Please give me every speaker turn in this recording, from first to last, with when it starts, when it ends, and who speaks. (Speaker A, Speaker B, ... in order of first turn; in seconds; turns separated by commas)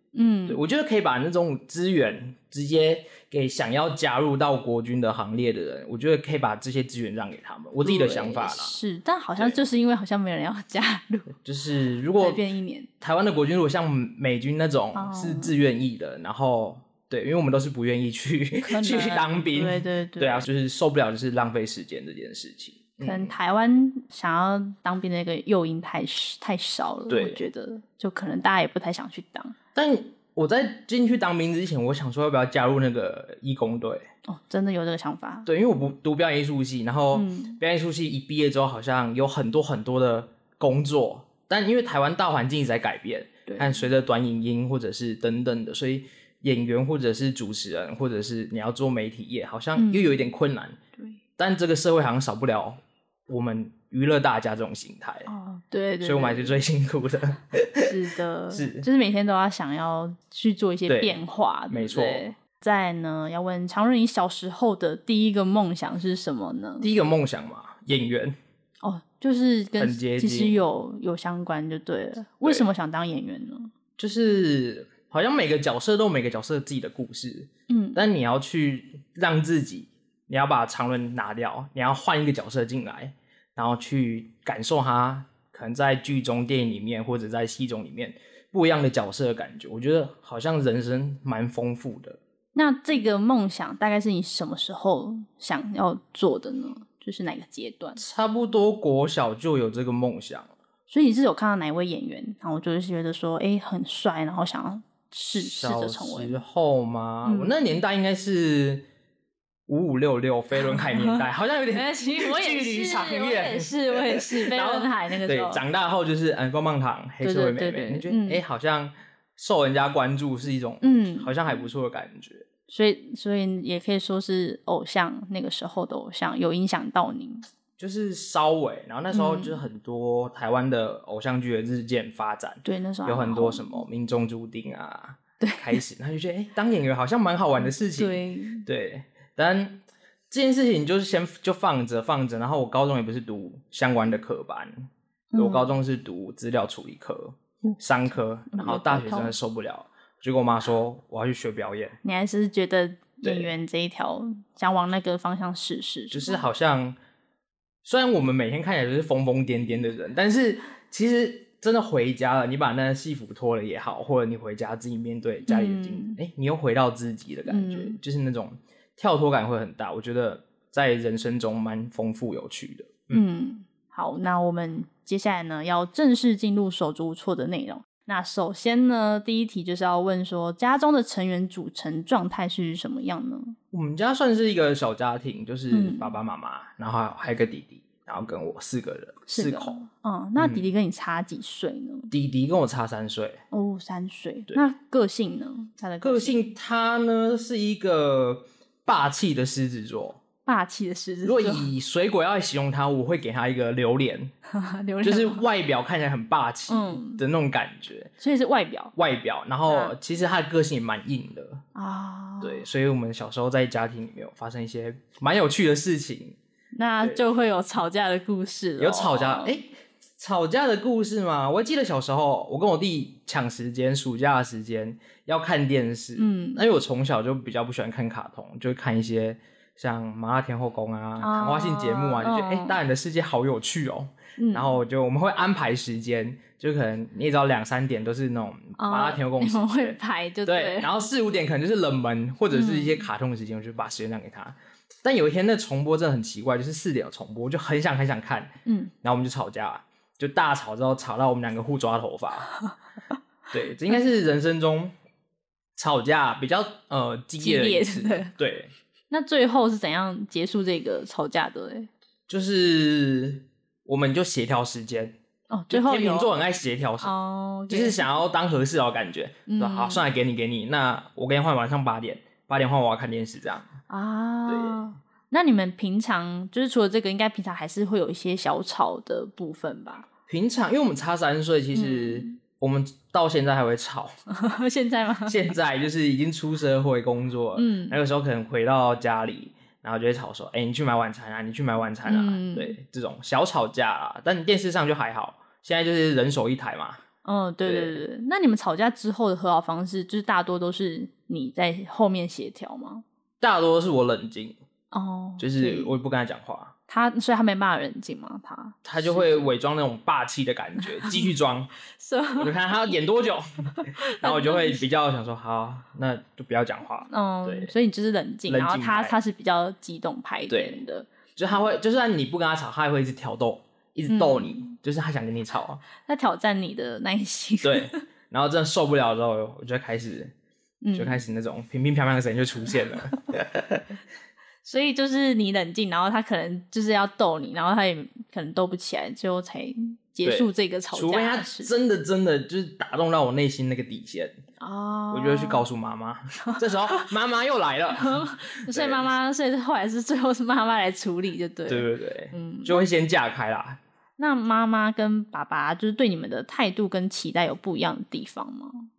Speaker A: 0.1-0.6, Speaker B: 0.5-8.8, Speaker A: 7.8-11.3, Speaker B: 11.4-12.4, Speaker A: 12.2-12.9, Speaker B: 13.0-23.3, Speaker A: 14.9-15.5, Speaker A: 18.6-20.4, Speaker A: 23.0-29.6, Speaker B: 27.1-27.4, Speaker B: 29.7-34.0, Speaker A: 34.2-35.5, Speaker B: 35.5-50.8, Speaker A: 37.1-37.6, Speaker A: 43.5-43.8, Speaker A: 49.8-50.2, Speaker B: 51.4-55.3, Speaker A: 55.3-56.6, Speaker B: 56.0-57.9, Speaker A: 57.8-66.9, Speaker B: 58.5-58.9, Speaker B: 60.9-62.3, Speaker B: 66.8-68.3, Speaker A: 68.8-73.7, Speaker B: 69.8-70.6, Speaker B: 74.0-92.2, Speaker A: 77.7-78.0, Speaker A: 92.5-98.0, Speaker B: 98.0-100.5, Speaker A: 100.9-106.4, Speaker B: 105.3-108.8, Speaker A: 107.2-107.7, Speaker B: 109.7-122.5, Speaker A: 110.6-115.6, Speaker A: 117.2-118.4, Speaker A: 120.8-121.3, Speaker A: 122.7-127.5, Speaker B: 127.8-152.0, Speaker A: 129.1-129.6, Speaker A: 132.6-133.8, Speaker A: 135.4-135.8, Speaker A: 137.6-138.7, Speaker A: 145.3-145.7, Speaker A: 147.6-149.3, Speaker A: 152.0-156.4, Speaker B: 153.2-153.5, Speaker B: 156.1-157.0, Speaker B: 157.8-173.2, Speaker A: 165.4-166.2, Speaker A: 167.5-168.0, Speaker A: 173.1-183.6, Speaker B: 183.7-189.8, Speaker A: 185.7-186.1, Speaker A: 189.3-192.1, Speaker B: 190.4-190.7, Speaker B: 192.1-193.4, Speaker A: 193.5-196.4, Speaker B: 196.0-200.2, Speaker A: 200.4-201.7, Speaker B: 201.2-204.3, Speaker A: 204.5-205.4, Speaker B: 205.0-208.1, Speaker A: 206.7-207.2, Speaker A: 208.2-208.9, Speaker B: 208.9-211.6, Speaker A: 209.7-209.9, Speaker A: 211.7-212.7, Speaker B: 212.4-216.4, Speaker A: 216.7-219.6, Speaker B: 218.8-252.5, Speaker A: 226.2-226.6, Speaker A: 231.2-232.8, Speaker A: 234.4-234.8, Speaker A: 238.8-240.9, Speaker A: 242.5-243.1, Speaker A: 248.7-248.9, Speaker B: 253.5-254.9, Speaker B: 255.8-258.7, Speaker A: 257.4-258.3, Speaker A: 259.1-261.9, Speaker B: 262.3-265.1, Speaker A: 265.5-266.3, Speaker B: 265.7-267.1, Speaker A: 267.0-268.0, Speaker B: 267.7-273.7, Speaker A: 269.5-270.0, Speaker A: 273.9-280.1, Speaker B: 274.5-274.8, Speaker B: 280.3-284.1, Speaker A: 281.7-282.4, Speaker A: 284.3-285.5, Speaker B: 285.2-297.0, Speaker A: 287.6-288.0, Speaker A: 292.1-292.8, Speaker A: 297.2-303.0, Speaker B: 297.6-298.0, Speaker B: 303.4-304.6, Speaker A: 304.9-305.9, Speaker B: 305.4-306.7, Speaker A: 306.9-309.5, Speaker B: 308.8-311.7, Speaker A: 311.0-311.3, Speaker A: 311.9-312.9, Speaker B: 312.4-317.7, Speaker A: 313.7-314.8, Speaker A: 317.1-321.1, Speaker B: 318.5-319.1, Speaker B: 320.5-320.8, Speaker B: 321.4-325.8, Speaker A: 324.1-324.7, Speaker A: 326.0-328.0, Speaker B: 327.6-330.3, Speaker A: 330.8-331.2, Speaker B: 330.9-333.9, Speaker A: 334.6-341.7, Speaker B: 340.2-344.4, Speaker A: 344.6-345.6, Speaker B: 345.1-349.1, Speaker A: 346.4-347.1, Speaker A: 348.0-352.9, Speaker B: 351.7-353.8, Speaker A: 354.2-358.9